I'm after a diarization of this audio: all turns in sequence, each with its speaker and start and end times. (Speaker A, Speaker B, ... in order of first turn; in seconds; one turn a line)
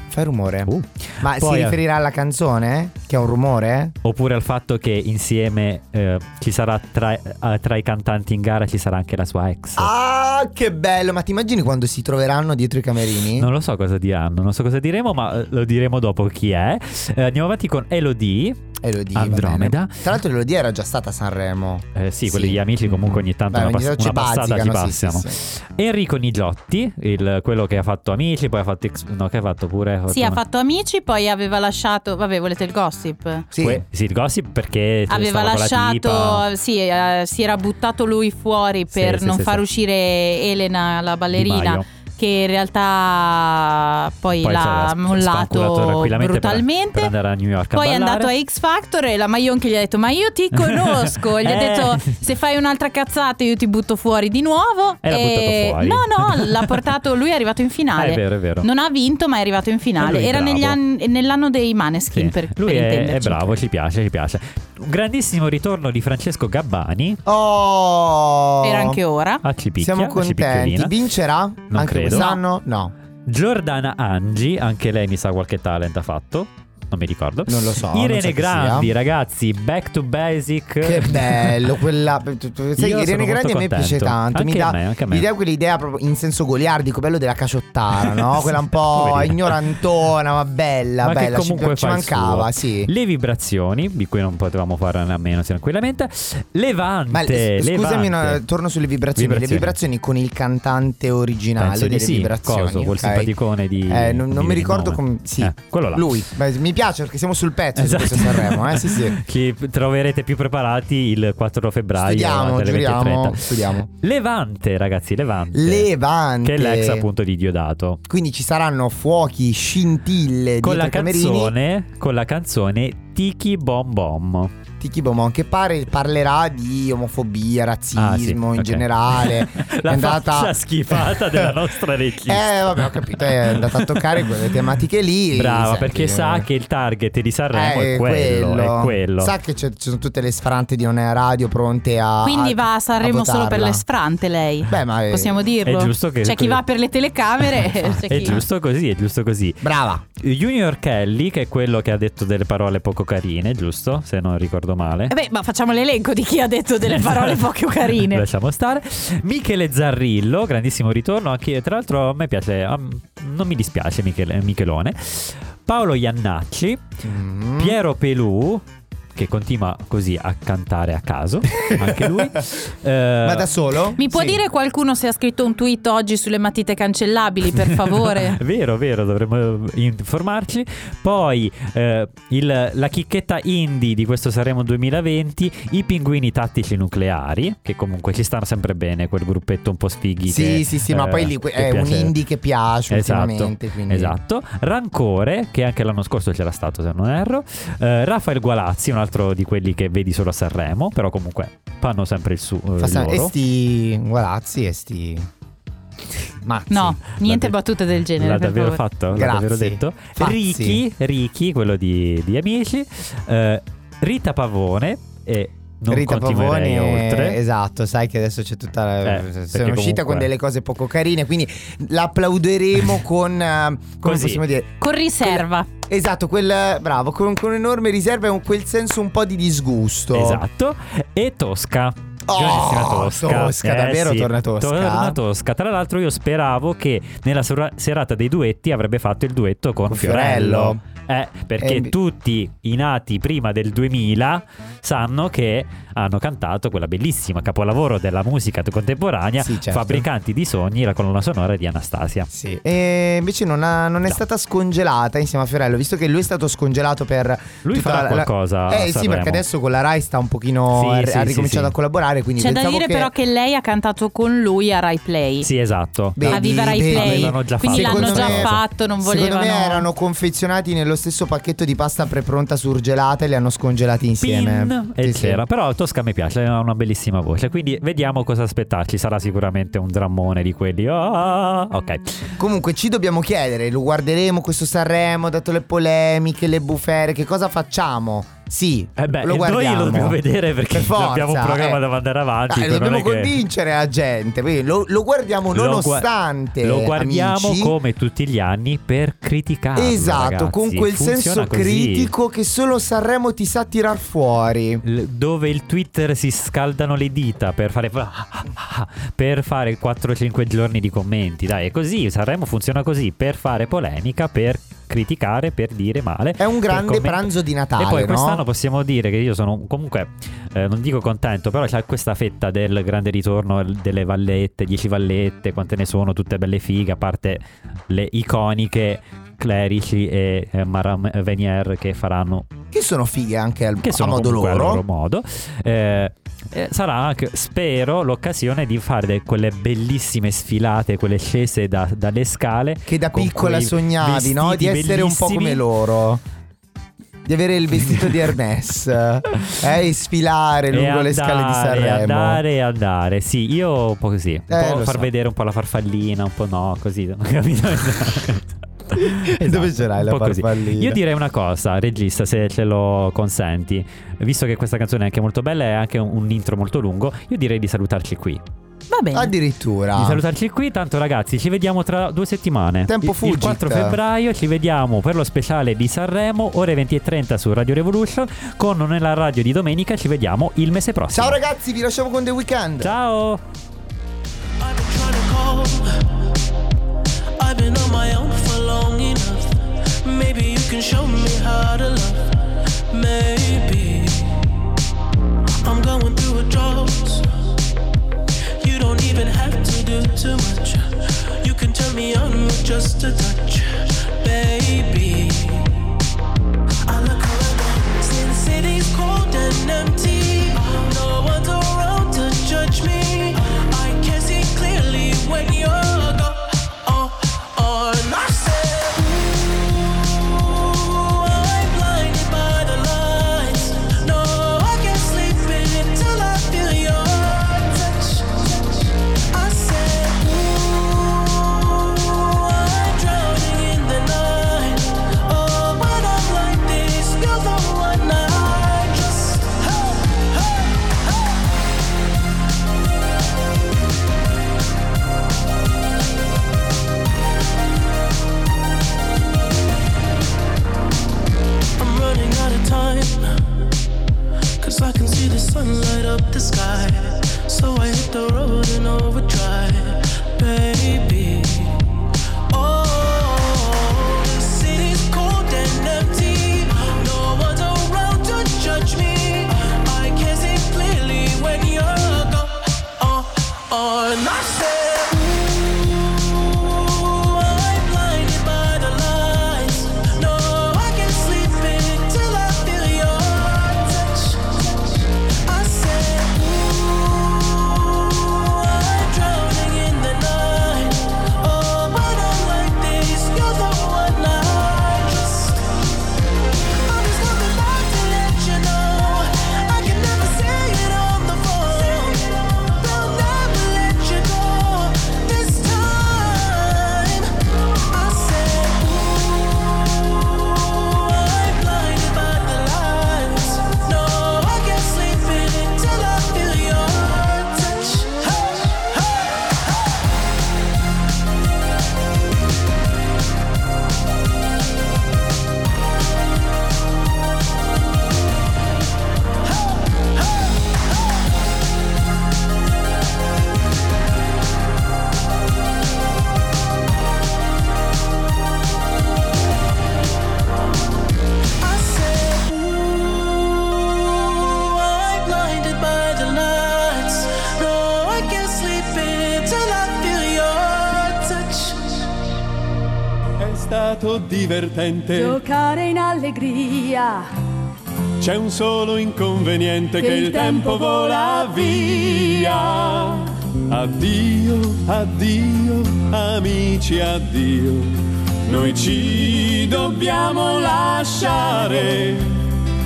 Speaker A: 0.1-4.0
Speaker B: 0.7-1.8
Speaker B: 4.0-9.9
Speaker A: 9.8-13.5
Speaker B: 13.4-18.6
Speaker A: 18.8-25.4
Speaker B: 19.1-20.1
Speaker B: 21.9-30.4
Speaker C: 30.1-33.5
Speaker A: 33.5-33.8
Speaker B: 33.6-36.4
Speaker C: 35.1-47.1
Speaker B: 38.9-39.6
Speaker B: 41.3-41.9
Speaker B: 44.4-48.3
Speaker C: 47.7-63.6
Speaker B: 50.5-52.1
Speaker B: 55.0-56.7
Speaker B: 58.0-58.7
Speaker B: 60.0-60.8
Speaker B: 62.1-67.2
Speaker A: 67.3-69.0
Speaker C: 68.6-69.4
Speaker B: 69.4-70.9
Speaker A: 69.8-72.9
Speaker B: 71.7-72.3
Speaker C: 72.1-72.4
Speaker B: 73.3-81.7
Speaker A: 77.5-78.9
Speaker A: 80.8-92.9
Speaker B: 82.8-85.3
Speaker B: 88.1-89.7
Speaker B: 91.0-98.4
Speaker A: 97.1-103.3
Speaker B: 99.2-99.8
Speaker B: 101.6-106.2
Speaker A: 103.9-109.2
Speaker B: 107.8-113.5
Speaker A: 112.0-113.9
Speaker B: 114.0-115.9
Speaker A: 115.5-117.1
Speaker B: 116.4-118.0
Speaker A: 118.1-121.5
Speaker B: 120.6-124.5
Speaker A: 124.8-131.6
Speaker B: 128.0-134.3
Speaker A: 132.2-136.5
Speaker B: 135.3-139.3
Speaker A: 137.5-143.8
Speaker C: 142.2-148.4
Speaker A: 144.7-145.5
Speaker B: 145.7-146.6
Speaker A: 147.8-148.4
Speaker B: 148.1-149.7
Speaker A: 149.6-150.0
Speaker B: 150.2-155.1
Speaker C: 155.1-158.2
Speaker B: 156.9-166.8
Speaker A: 167.0-167.8
Speaker B: 167.6-168.6
Speaker B: 169.2-173.5
Speaker A: 171.6-172.3
Speaker A: 173.2-174.4
Speaker C: 174.0-178.4
Speaker B: 177.6-192.2
Speaker A: 190.3-194.2
Speaker B: 192.9-203.3
Speaker A: 202.8-205.3
Speaker A: 206.4-207.0
Speaker C: 206.7-208.8
Speaker B: 207.2-207.5
Speaker B: 208.2-217.4
Speaker A: 209.1-210.8
Speaker A: 215.9-230.4
Speaker B: 219.0-220.3
Speaker B: 224.0-224.4
Speaker C: 224.8-225.7
Speaker B: 230.1-252.3
Speaker A: 232.3-235.2
Speaker A: 239.9-240.8
Speaker A: 241.6-241.9
Speaker A: 249.4-250.1
Speaker A: 252.3-263.1
Speaker B: 257.6-259.4
Speaker B: 260.7-261.7
Speaker C: 262.4-265.5
Speaker B: 265.4-268.6
Speaker A: 266.2-275.4
Speaker C: 266.3-269.9
Speaker B: 274.2-282.2
Speaker A: 282.4-291.8
Speaker B: 289.0-293.4
Speaker A: 292.5-297.8
Speaker B: 295.5-296.1
Speaker B: 296.6-302.1
Speaker A: 299.8-304.8
Speaker B: 304.9-332.5
Speaker A: 316.4-318.4
Speaker A: 332.7-334.8
Speaker B: 333.8-345.6
Speaker A: 342.9-346.2
Speaker A: 347.3-352.4
Speaker B: 347.9-348.2
Speaker B: 350.7-368.4
Speaker A: 354.5-355.1
Speaker A: 359.1-361.0
Speaker C: 368.9-369.3
Speaker A: 369.1-370.2
Speaker B: 369.9-381.4
Speaker A: 372.9-374.0
Speaker A: 381.1-382.9
Speaker B: 382.8-383.4
Speaker D: 384.6-385.9
Speaker D: 387.4-392.4
Speaker D: 392.9-394.3
Speaker D: 395.6-397.3
Speaker D: 398.6-405.7
Speaker D: 406.9-441.3
Speaker D: 451.8-453.4
Speaker D: 454.6-461.8
Speaker D: 462.5-495.7
Speaker D: 496.9-507.3
Speaker D: 507.9-519.5
Speaker D: 541.6-552.1
Speaker E: 553.4-555.4
Speaker F: 555.1-557.3
Speaker E: 558.2-572.3
Speaker F: 560.0-563.3
Speaker F: 569.6-572.1